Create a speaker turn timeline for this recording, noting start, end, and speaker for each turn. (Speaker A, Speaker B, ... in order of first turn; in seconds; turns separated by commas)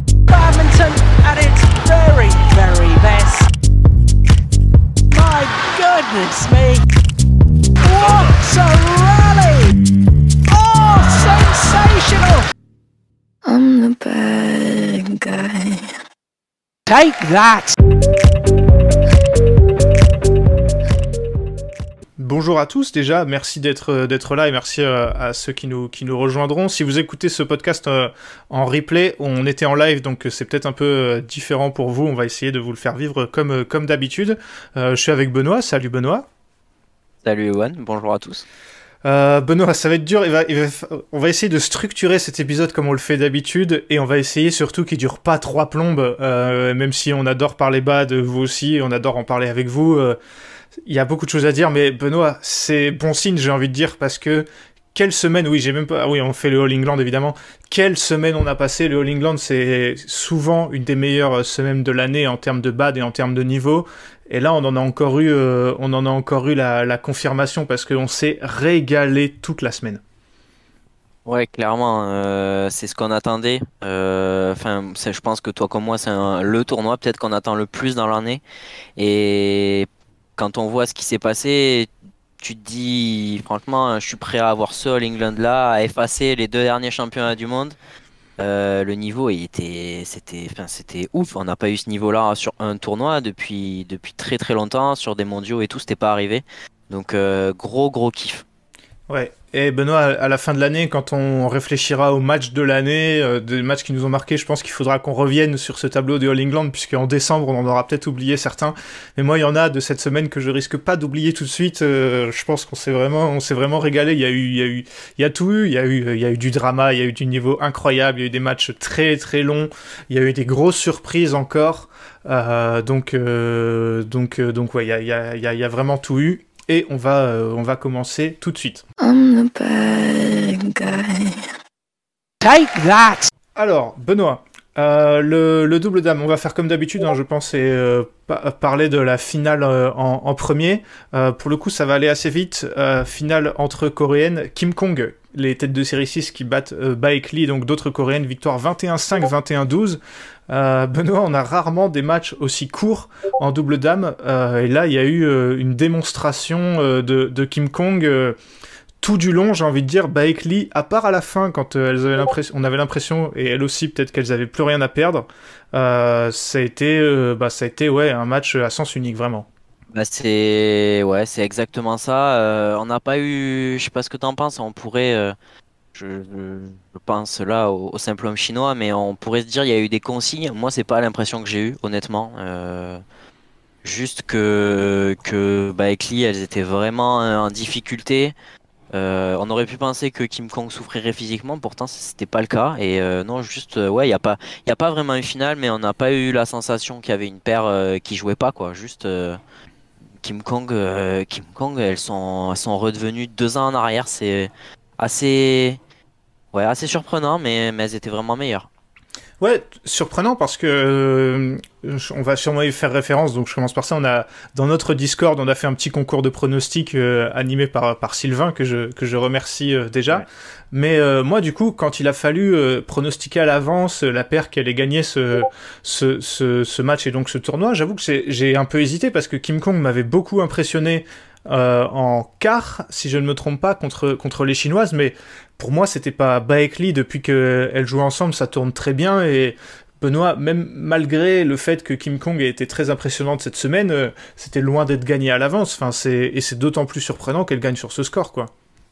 Speaker A: 0.3-3.5, Speaker A: 5.1-6.8, Speaker A: 7.8-9.8, Speaker A: 10.5-12.5, Speaker B: 13.4-15.9, Speaker A: 16.9-17.8, Speaker C: 22.2-36.3, Speaker D: 37.2-38.5, Speaker C: 39.0-50.2, Speaker C: 50.9-70.0, Speaker D: 71.3-78.4, Speaker D: 79.0-81.9, Speaker D: 82.4-87.8, Speaker D: 88.4-98.5, Speaker C: 99.1-128.8, Speaker B: 129.0-131.5, Speaker A: 132.4-133.3, Speaker C: 133.6-158.4, Speaker C: 159.0-169.5, Speaker D: 169.9-175.3, Speaker D: 175.9-183.0, Speaker D: 183.8-188.3, Speaker D: 188.9-199.4, Speaker D: 200.2-205.8, Speaker D: 206.5-208.7, Speaker C: 209.4-248.5